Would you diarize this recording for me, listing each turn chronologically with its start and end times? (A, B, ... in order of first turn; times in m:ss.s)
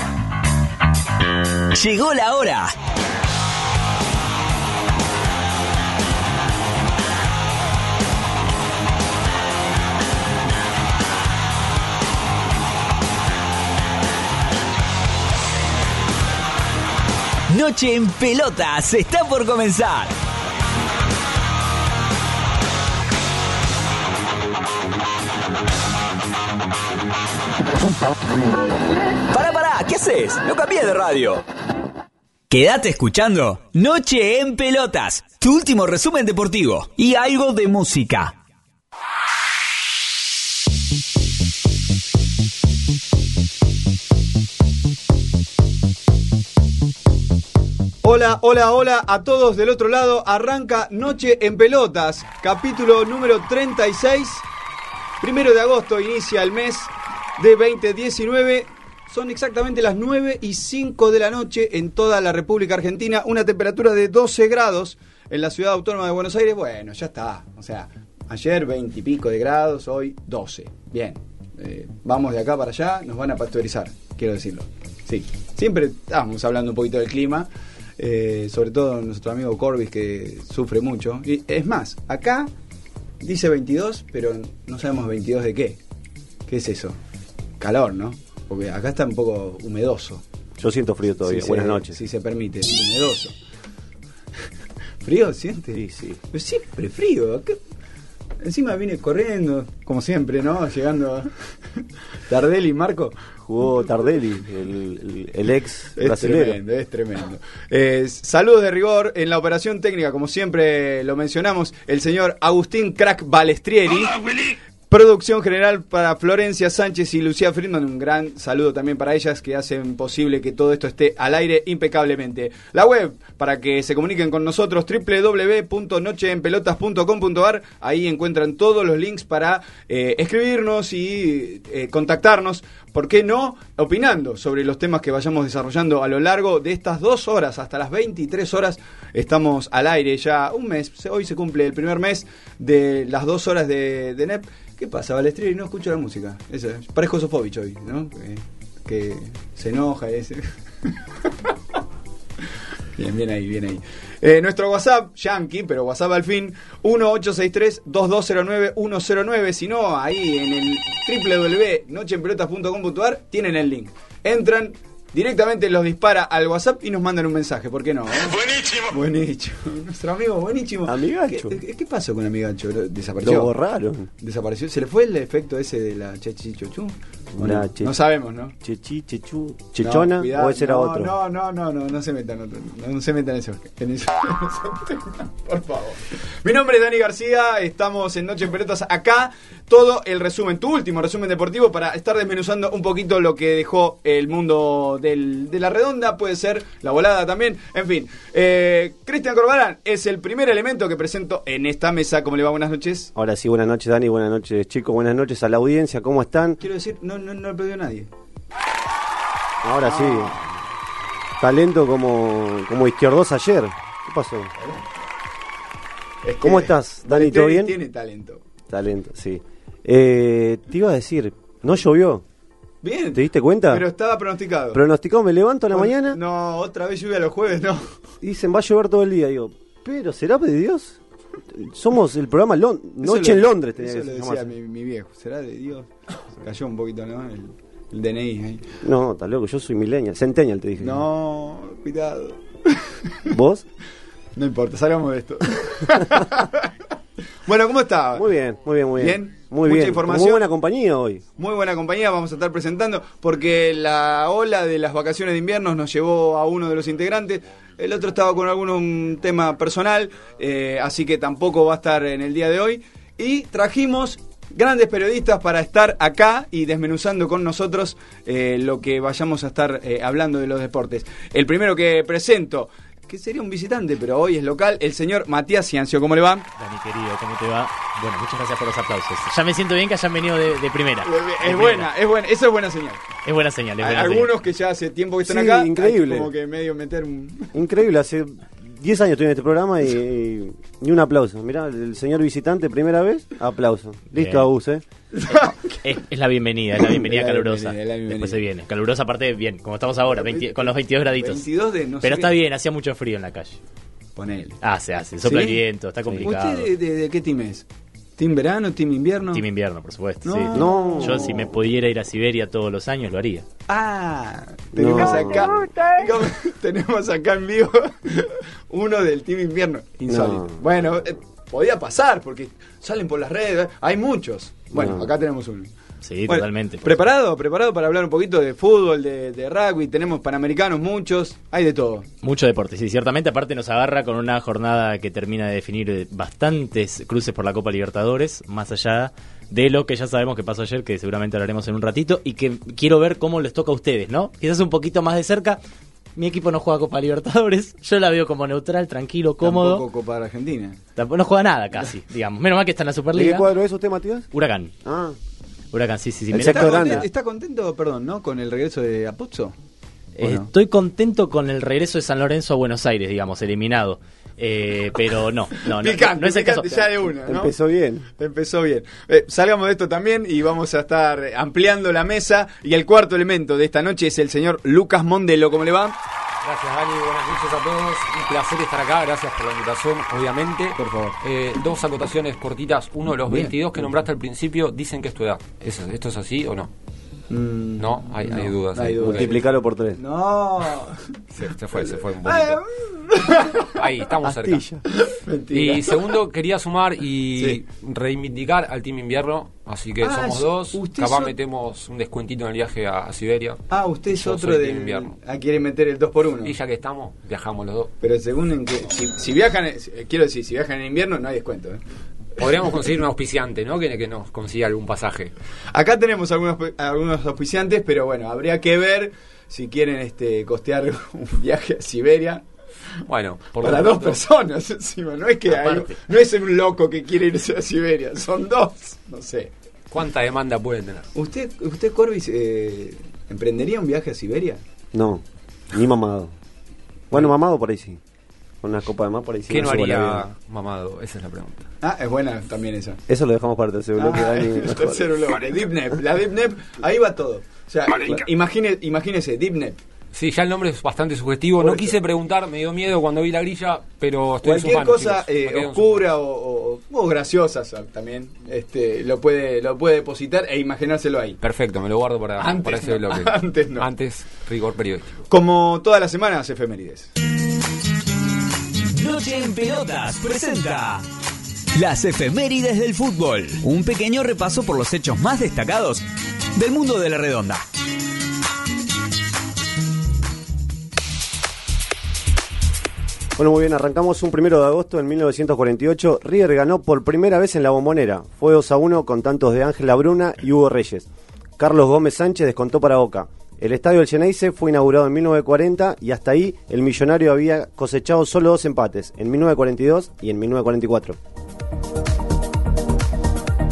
0:01.7-0:02.7 A
0:17.5-0:20.1 A
0:29.3-0:31.4 A
0:32.5-0:38.3 A
0:48.0-0:54.4 B
0:55.2-1:22.5 B
1:23.2-1:25.8 B
1:26.5-1:27.0 B
1:27.6-1:30.2 B
1:30.6-1:32.0 C
1:31.3-1:33.3 B
1:35.0-1:37.6 B
1:35.7-1:36.2 C
1:38.4-1:43.2 B
1:43.4-1:46.6 C
1:46.0-1:54.2 B
1:54.9-2:31.5 B
2:33.0-2:53.5 B
2:50.8-2:51.6 C
2:53.2-2:54.1 C
2:54.2-2:58.5 B
2:57.4-2:58.0 C
2:58.6-3:01.1 C
2:59.8-3:23.1 B
3:23.1-3:26.6 C
3:26.6-3:28.1 B
3:29.6-3:30.4 C
3:29.8-3:30.5 B
3:31.4-3:34.5 C
3:36.2-3:38.4 B
3:36.4-3:37.7 C
3:38.7-3:42.2 C
3:42.8-3:44.8 B
3:43.1-3:43.8 C
3:44.7-3:46.2 C
3:45.7-3:48.0 B
3:48.2-3:54.5 C
3:53.0-3:58.6 B
3:58.8-4:01.0 C
4:00.8-4:03.1 B
4:03.3-4:03.6 C
4:04.4-4:06.7 B
4:07.4-4:08.2 B
4:08.1-4:11.2 C
4:09.0-4:10.4 B
4:11.4-4:36.4 B
4:36.6-4:41.9 D
4:41.0-4:43.0 B
4:43.2-4:44.3 D
4:43.8-4:47.5 B
4:45.2-4:46.3 C
4:47.5-4:54.8 C
4:54.1-4:54.5 D
4:55.2-4:55.6 B
4:55.3-5:01.4 D
4:56.8-4:58.4 B
4:56.8-4:57.3 C
5:00.1-5:02.3 B
5:02.0-5:03.6 D
5:04.2-5:04.6 B
5:04.6-5:06.7 D
5:05.2-5:05.6 B
5:06.2-5:07.6 B
5:08.2-5:09.4 B
5:09.3-5:13.4 D
5:10.2-5:11.2 B
5:10.5-5:11.5 C
5:13.7-5:25.7 B
5:14.7-5:15.8 C
5:20.1-5:20.6 C
5:24.7-5:25.1 C
5:26.0-5:27.0 D
5:26.3-5:32.0 B
5:32.2-5:45.6 D
5:46.2-5:49.8 D
5:49.4-5:50.8 B
5:51.0-5:53.5 D
5:53.1-5:54.3 C
5:54.3-5:54.7 D
5:54.8-5:55.2 C
5:55.7-5:57.1 D
5:56.3-5:57.1 C
5:56.4-5:59.5 B
6:00.2-6:07.0 D
6:00.2-6:00.5 B
6:05.7-6:07.5 B
6:07.2-6:08.1 C
6:08.2-6:16.0 B
6:16.4-6:26.7 E
6:20.8-6:21.2 B
6:23.2-6:23.9 B
6:27.3-6:29.4 B
6:27.8-6:29.4 E
6:29.0-6:30.0 C
6:30.0-6:33.7 B
6:31.4-6:32.6 E
6:33.7-6:34.6 E
6:34.2-6:34.8 C
6:35.0-6:36.0 B
6:35.5-6:45.2 E
6:40.0-6:41.3 B
6:43.7-6:46.5 B
6:46.4-6:47.9 E
6:48.0-6:51.8 B
6:52.4-6:55.3 E
6:55.7-7:02.4 B
7:03.1-7:04.2 E
7:03.6-7:09.5 B
7:05.5-7:06.0 D
7:09.9-7:11.1 E
7:11.1-7:14.6 B
7:14.9-7:16.3 C
7:17.1-7:18.0 C
7:18.6-7:20.3 C
7:19.5-7:21.7 E
7:21.8-7:23.0 B
7:23.1-7:25.3 C
7:24.0-7:29.8 B
7:30.1-7:36.1 E
7:31.6-7:32.0 B
7:34.4-7:41.4 B
7:41.4-7:45.2 E
7:42.4-7:43.9 B
7:45.3-7:47.1 B
7:48.9-7:51.0 A
7:51.7-7:56.0 A
7:56.5-7:57.6 A
8:03.4-8:11.1 C
8:11.6-8:21.2 C